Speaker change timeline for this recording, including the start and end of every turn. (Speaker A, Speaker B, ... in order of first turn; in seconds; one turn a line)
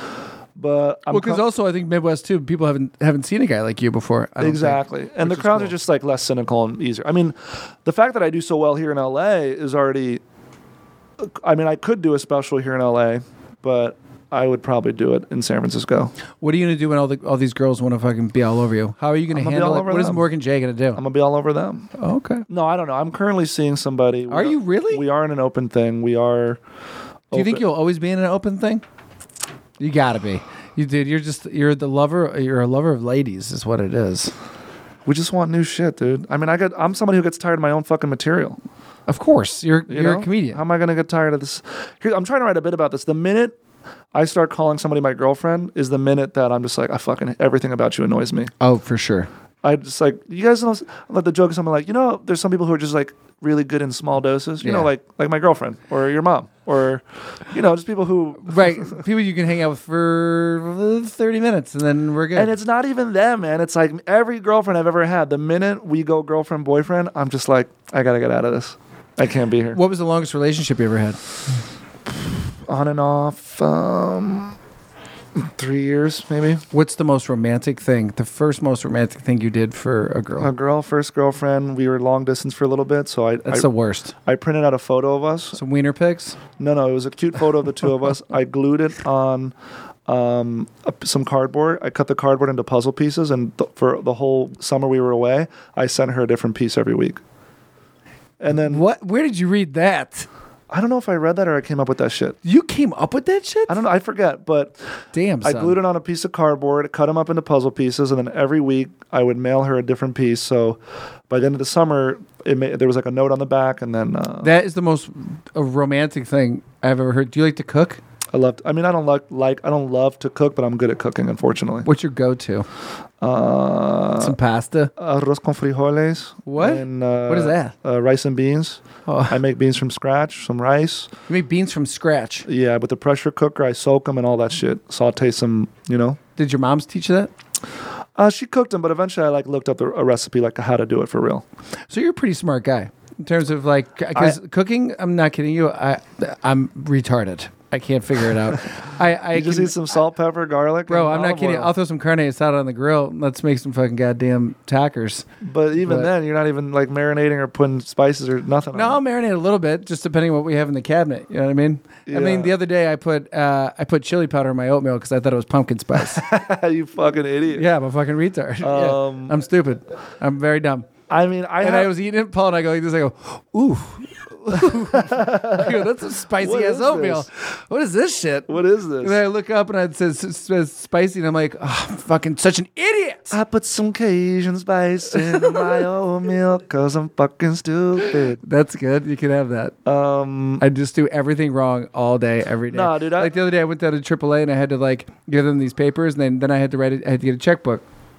Speaker A: 0.6-1.4
Speaker B: 1.1-5.7
Speaker A: 4.4-10.2
Speaker A: 11.2-16.1
Speaker B: 16.4-21.0
Speaker A: 19.3-20.3
Speaker A: 20.9-21.9
Speaker B: 22.0-22.4
Speaker A: 22.5-26.6
Speaker B: 24.3-25.0
Speaker A: 27.3-27.6
Speaker B: 27.3-28.8
Speaker B: 29.8-34.3
Speaker A: 35.0-38.6
Speaker B: 39.1-40.6
Speaker A: 39.9-43.5
Speaker A: 44.1-48.5
Speaker B: 48.6-49.3
Speaker A: 49.6-59.0
Speaker B: 54.6-54.9
Speaker B: 58.4-62.5
Speaker A: 62.3-69.8
Speaker B: 69.7-71.2
Speaker A: 72.7-74.5
Speaker A: 75.3-76.6
Speaker B: 76.7-80.5
Speaker A: 80.4-83.7
Speaker B: 83.5-84.1
Speaker A: 84.2-85.6
Speaker B: 85.5-86.4
Speaker A: 86.6-89.5
Speaker A: 90.1-97.2
Speaker A: 98.4-98.8
Speaker B: 98.5-100.3
Speaker A: 100.7-102.4
Speaker B: 102.4-103.8
Speaker A: 103.7-104.8
Speaker B: 105.1-105.8
Speaker A: 105.4-114.5
Speaker B: 114.4-118.0
Speaker A: 118.3-121.9
Speaker B: 121.8-122.7
Speaker A: 123.2-124.3
Speaker B: 124.2-124.9
Speaker A: 125.0-131.1
Speaker B: 126.5-127.7
Speaker B: 129.1-129.4
Speaker B: 131.3-132.5
Speaker A: 132.4-136.2
Speaker B: 136.4-137.3
Speaker A: 138.2-141.4
Speaker B: 141.9-149.8
Speaker A: 149.3-151.7
Speaker B: 150.9-156.1
Speaker A: 155.4-159.0
Speaker B: 158.7-166.2
Speaker A: 162.1-162.5
Speaker A: 166.1-167.7
Speaker B: 167.5-170.9
Speaker A: 168.6-169.3
Speaker A: 171.1-171.9
Speaker B: 171.6-183.4
Speaker A: 174.5-177.2
Speaker A: 178.5-179.2
Speaker A: 183.3-188.4
Speaker B: 185.3-185.7
Speaker B: 188.1-189.7
Speaker A: 189.8-190.6
Speaker B: 190.6-197.8
Speaker A: 192.7-193.3